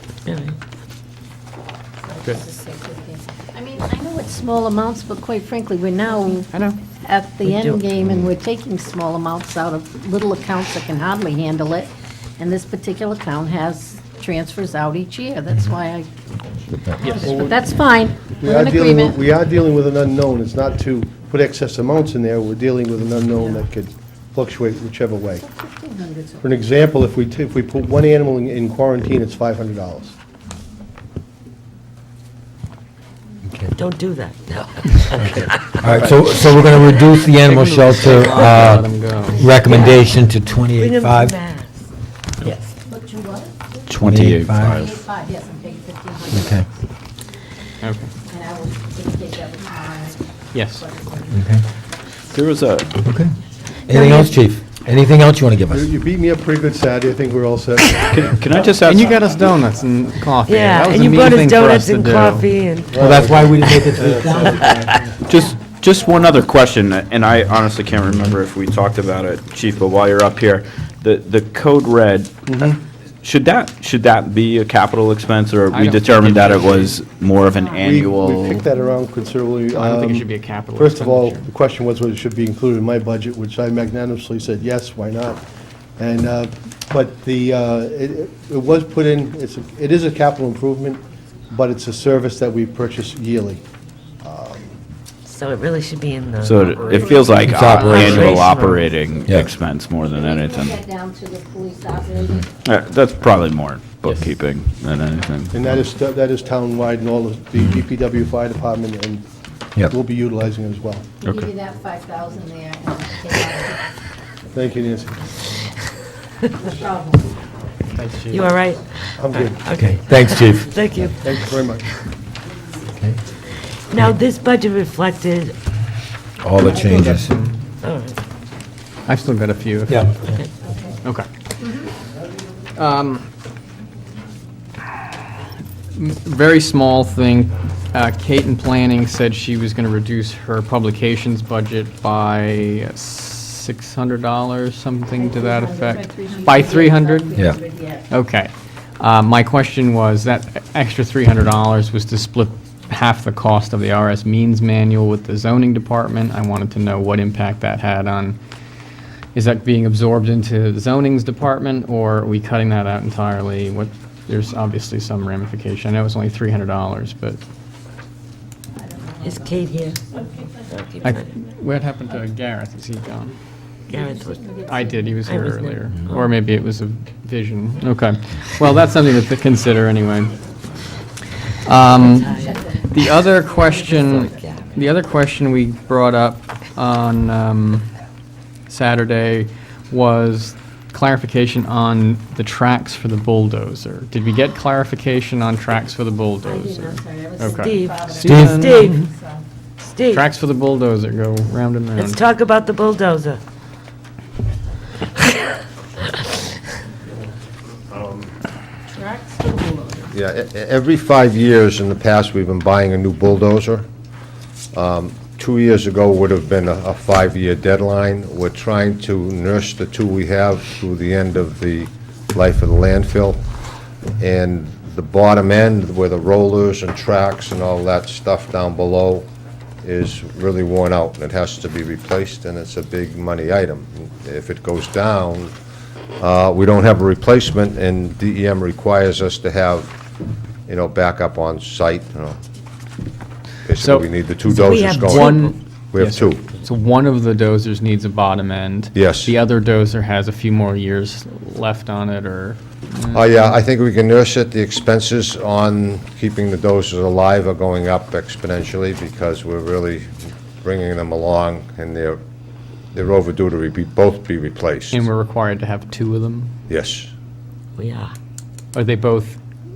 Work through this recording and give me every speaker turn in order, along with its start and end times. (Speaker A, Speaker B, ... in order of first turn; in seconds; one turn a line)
Speaker A: 0.3-0.6
Speaker B: 2.1-16.1
Speaker A: 7.5-7.8
Speaker B: 17.0-19.2
Speaker C: 17.1-17.4
Speaker D: 17.1-17.7
Speaker D: 18.2-25.4
Speaker B: 25.4-26.4
Speaker D: 26.4-30.2
Speaker E: 33.5-33.7
Speaker A: 33.8-37.0
Speaker E: 35.1-41.4
Speaker C: 37.5-39.5
Speaker A: 37.7-38.7
Speaker A: 39.6-40.1
Speaker A: 40.8-41.9
Speaker B: 42.8-43.5
Speaker F: 43.9-45.0
Speaker E: 44.0-44.9
Speaker B: 44.8-46.6
Speaker E: 46.3-46.7
Speaker C: 47.8-48.1
Speaker B: 48.2-51.5
Speaker C: 50.5-50.8
Speaker E: 51.3-51.6
Speaker F: 52.3-53.0
Speaker E: 53.0-53.3
Speaker E: 53.9-55.9
Speaker A: 53.9-54.4
Speaker D: 55.7-59.1
Speaker F: 58.1-59.5
Speaker C: 58.8-62.5
Speaker A: 60.5-63.9
Speaker D: 62.9-65.2
Speaker E: 63.0-64.9
Speaker F: 65.2-78.7
Speaker D: 72.5-72.8
Speaker C: 75.7-77.0
Speaker D: 77.8-85.4
Speaker C: 79.7-81.5
Speaker D: 86.0-93.6
Speaker D: 94.2-94.6
Speaker A: 95.2-97.3
Speaker F: 96.4-100.8
Speaker B: 97.0-97.4
Speaker E: 97.4-98.3
Speaker A: 97.8-98.9
Speaker E: 99.3-99.5
Speaker B: 100.1-102.5
Speaker F: 102.7-105.7
Speaker C: 104.0-104.3
Speaker D: 105.5-109.2
Speaker D: 109.8-111.1
Speaker B: 111.3-113.9
Speaker D: 114.5-115.4
Speaker B: 116.6-117.4
Speaker C: 117.9-118.6
Speaker A: 118.3-121.4
Speaker D: 119.2-119.7
Speaker E: 119.7-120.7
Speaker D: 121.0-121.9
Speaker A: 123.9-125.5
Speaker E: 126.4-127.3
Speaker C: 126.7-127.7
Speaker A: 127.8-128.2
Speaker C: 129.1-130.3
Speaker E: 129.9-130.4
Speaker B: 130.7-130.9
Speaker B: 131.6-131.9
Speaker C: 132.8-133.3
Speaker C: 136.0-147.3
Speaker B: 145.2-148.1
Speaker C: 148.1-158.4
Speaker C: 159.3-167.4
Speaker B: 168.8-169.9
Speaker A: 169.2-170.0
Speaker A: 170.7-171.3
Speaker C: 171.0-173.4
Speaker A: 173.9-174.5
Speaker B: 174.0-174.8
Speaker C: 174.6-180.4
Speaker A: 175.2-176.2
Speaker C: 181.7-187.9
Speaker A: 181.8-182.6
Speaker B: 182.4-182.8
Speaker A: 183.9-184.8
Speaker C: 188.7-199.1
Speaker B: 196.4-198.2
Speaker A: 197.6-199.1
Speaker E: 198.2-198.6
Speaker B: 198.8-199.4
Speaker A: 199.8-200.2
Speaker C: 200.1-202.2
Speaker A: 202.0-203.4
Speaker B: 209.1-210.0
Speaker G: 210.1-213.9
Speaker G: 214.7-223.4
Speaker G: 224.2-229.3
Speaker G: 229.8-235.5
Speaker G: 236.2-239.9
Speaker G: 240.7-242.4
Speaker G: 243.7-246.4
Speaker C: 243.8-253.6
Speaker A: 244.5-245.6
Speaker G: 248.9-249.3
Speaker G: 253.1-260.1
Speaker G: 260.6-262.2
Speaker G: 262.9-265.0
Speaker C: 264.9-266.5
Speaker G: 266.7-267.1
Speaker A: 267.8-268.1
Speaker C: 268.8-269.4